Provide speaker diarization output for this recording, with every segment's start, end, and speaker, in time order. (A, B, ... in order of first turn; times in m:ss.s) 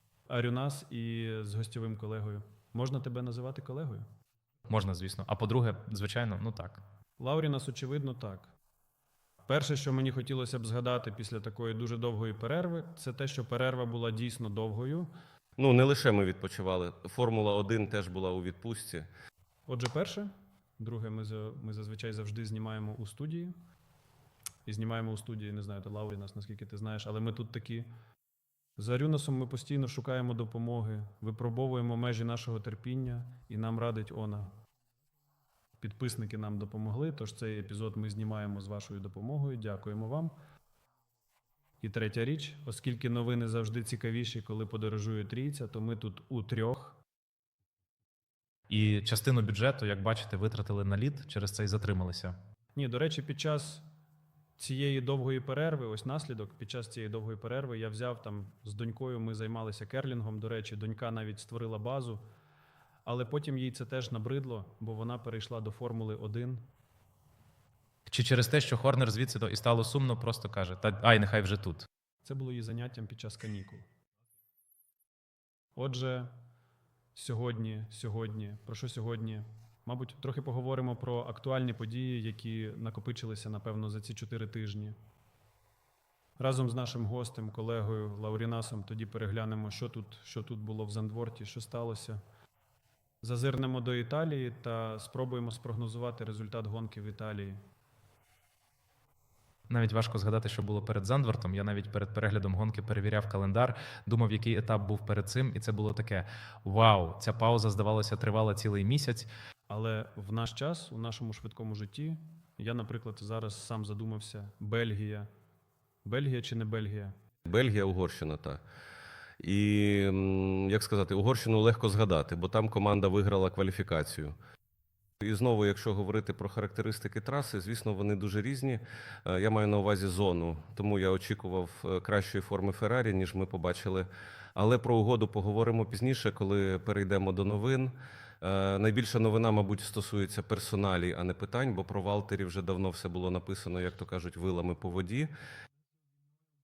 0:00.3-0:04.1 A
0:04.7-0:06.8 B
0:07.2-0:08.5 A
0:09.5-0:15.1 A
0:15.6-0:19.1 C
0:19.7-0:23.6 A
0:24.6-0:27.9 A
0:28.8-0:34.6 A
0:35.8-0:40.4 A
0:41.8-0:47.0 A
0:48.7-0:52.4 B
0:52.7-0:53.9 A
0:54.6-1:02.2 A
1:03.0-1:06.7 A
1:08.1-1:11.8 B
1:12.2-1:13.9 A
1:15.8-1:16.4 A
1:17.1-1:25.0 A
1:26.4-1:32.2 A
1:33.2-1:37.6 A
1:39.7-1:49.3 B
1:49.7-1:55.3 A
1:56.0-1:57.2 A
1:57.4-1:58.6 C
1:59.4-2:04.4 C
2:05.2-2:25.3 C